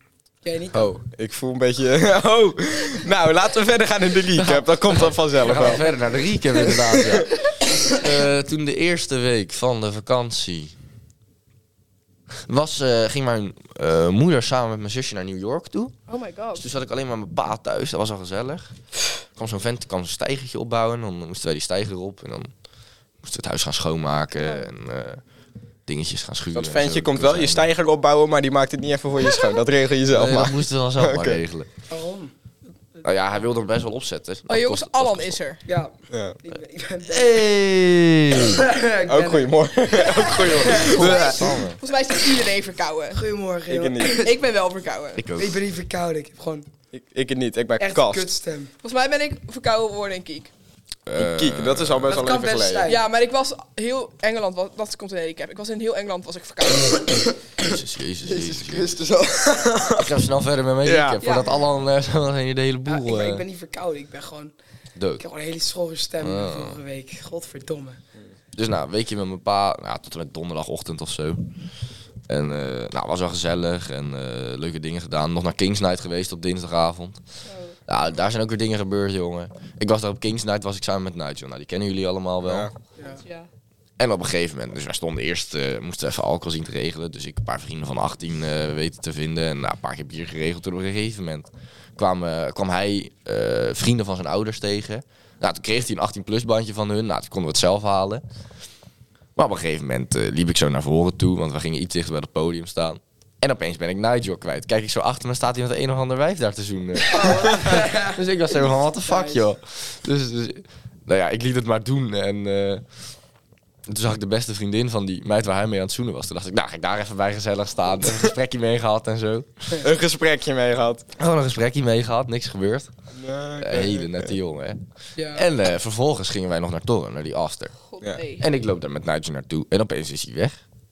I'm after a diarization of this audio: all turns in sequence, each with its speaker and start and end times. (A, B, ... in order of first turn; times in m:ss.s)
0:00.4-0:00.9 A
0:00.7-0:05.9 B
0:04.4-0:10.7 C
0:06.7-0:07.2 B
0:12.5-0:15.9 C
0:16.1-0:16.6 D
0:16.6-0:18.7 C
0:19.3-0:22.5 C
0:23.2-0:25.2 C
0:25.9-0:27.7 C
0:26.5-0:31.4 B
0:30.1-0:31.7 C
0:31.9-0:32.3 A
0:33.0-0:35.4 C
0:34.5-0:35.6 D
0:35.6-0:37.5 A
0:36.1-0:36.4 B
0:37.1-0:38.7 C
0:38.4-0:39.5 A
0:39.0-0:41.3 B
0:40.0-0:43.2 D
0:40.6-0:41.1 A
0:40.7-0:41.8 C
0:43.1-0:44.3 A
0:43.7-0:44.2 B
0:44.2-0:45.2 D
0:45.2-0:45.6 C
0:45.3-0:46.7 A
0:46.9-0:48.3 B
0:47.8-0:48.7 A
0:48.8-0:50.5 D
0:51.0-0:52.1 C
0:51.2-0:52.9 B
0:52.1-0:53.0 A
0:52.8-0:57.0 D
0:57.6-0:58.9 C
0:58.4-1:00.1 B
0:59.9-1:03.4 C
1:00.8-1:01.2 B
1:01.2-1:01.6 D
1:02.8-1:04.5 A
1:05.0-1:05.2 C
1:05.2-1:08.0 A
1:06.2-1:06.8 C
1:08.6-1:11.4 C
1:12.3-1:17.2 C
1:17.4-1:17.8 D
1:17.9-1:22.7 C
1:22.4-1:22.7 B
1:23.2-1:23.5 D
1:24.0-1:38.2 C
1:39.4-1:52.8 C
1:47.1-1:48.2 A
1:49.0-1:49.4 A
1:53.9-1:59.8 C
1:59.8-2:01.0 B
2:01.2-2:02.9 C
2:03.2-2:04.2 B
2:03.6-2:04.8 C
2:05.2-2:05.4 A
2:05.3-2:07.7 C
2:07.9-2:08.4 D
2:08.4-2:10.6 C